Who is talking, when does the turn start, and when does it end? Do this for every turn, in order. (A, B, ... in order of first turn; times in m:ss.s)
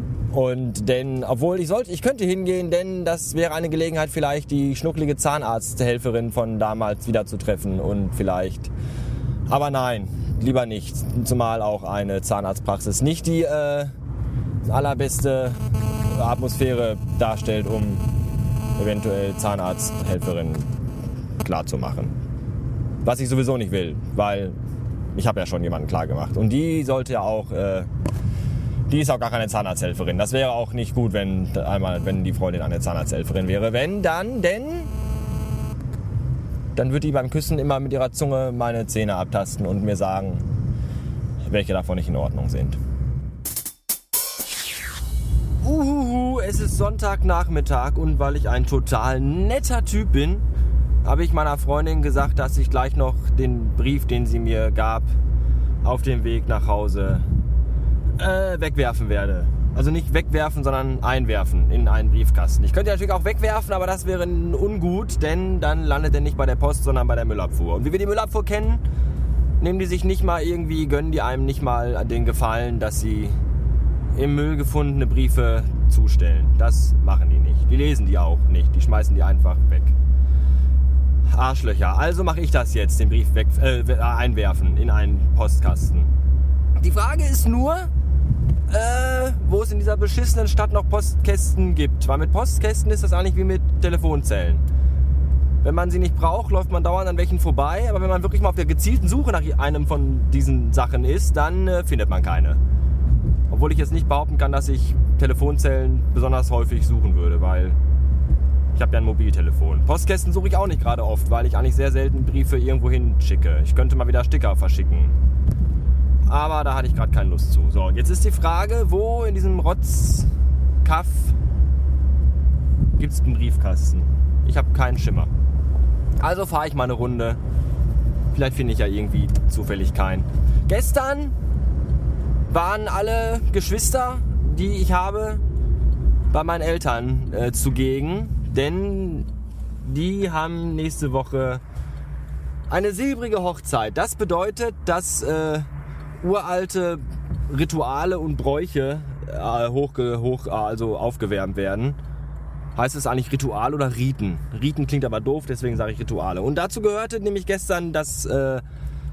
0:00.3-0:08.7 A
0:09.5-0:13.9 A
0:14.6-0:15.6 A
0:16.1-0:18.0 A
0:18.8-0:20.7 A
0:21.4-0:22.1 A
0:23.0-0:24.6 A
0:25.1-0:27.9 A
0:28.9-0:34.9 A
0:36.7-0:40.5 A
0:41.4-0:42.8 A
0:45.6-0:50.4 A
0:51.0-0:55.1 A
0:55.8-0:57.2 A
0:58.2-1:08.8 A
1:09.6-1:13.4 A
1:14.1-1:19.9 A
1:21.3-1:26.1 A
1:26.8-1:27.9 A
1:28.7-1:34.6 A
1:35.6-1:42.6 A
1:43.5-1:47.8 A
1:48.7-1:55.1 A
1:56.3-2:00.3 A
2:00.8-2:01.4 A
2:03.0-2:05.3 A
2:06.2-2:07.4 A
2:08.3-2:11.3 A
2:12.5-2:15.4 A
2:16.3-2:19.3 A
2:19.8-2:21.6 A
2:22.7-2:25.7 A
2:26.2-2:32.0 A
2:32.8-2:38.6 A